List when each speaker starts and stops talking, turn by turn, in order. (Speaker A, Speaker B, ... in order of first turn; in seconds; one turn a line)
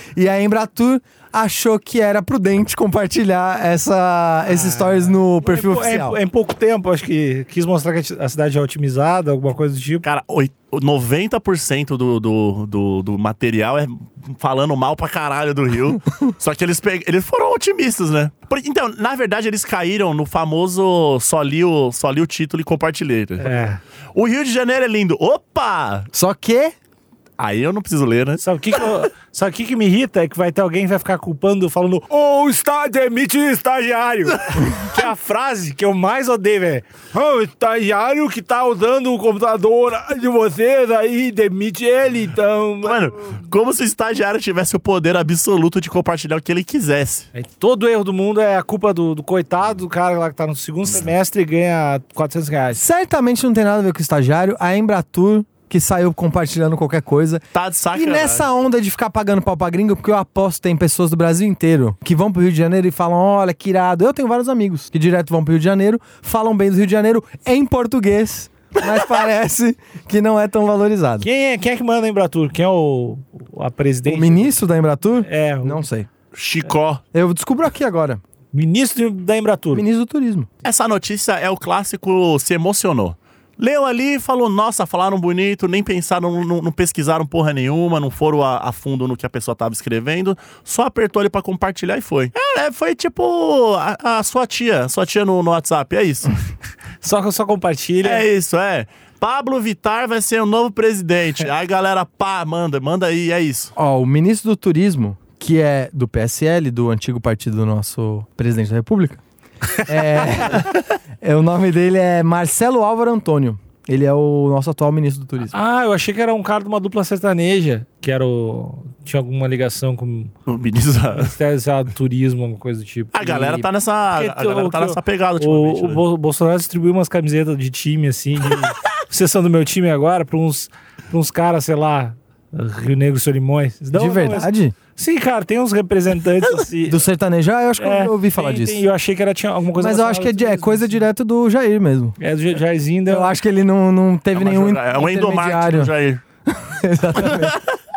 Speaker A: 0.1-6.2
Speaker B: 4.5-10.1
Speaker C: 10.1-26.1
Speaker B: 23.4-23.8
Speaker A: 26.1-26.8
Speaker C: 27.4-28.4
Speaker B: 28.4-43.1
Speaker C: 42.8-47.3
Speaker B: 47.4-52.8
Speaker A: 52.8-71.3
Speaker C: 57.5-58.5
Speaker B: 71.2-74.5
Speaker A: 74.1-76.1
Speaker B: 75.2-75.8
Speaker C: 76.3-77.0
Speaker A: 77.1-78.2
Speaker B: 78.5-79.8
Speaker A: 79.7-80.5
Speaker C: 80.6-96.3
Speaker B: 97.0-98.3
Speaker C: 98.0-103.7
Speaker A: 103.8-109.2
Speaker A: 109.8-115.5
Speaker B: 115.5-120.3
Speaker C: 120.5-121.3
Speaker B: 121.1-137.0
Speaker C: 123.1-126.0
Speaker A: 133.9-134.8
Speaker A: 136.9-138.8
Speaker B: 137.8-141.0
Speaker A: 139.8-142.2
Speaker B: 142.2-143.3
Speaker A: 143.1-145.9
Speaker C: 144.3-146.2
Speaker A: 146.5-147.6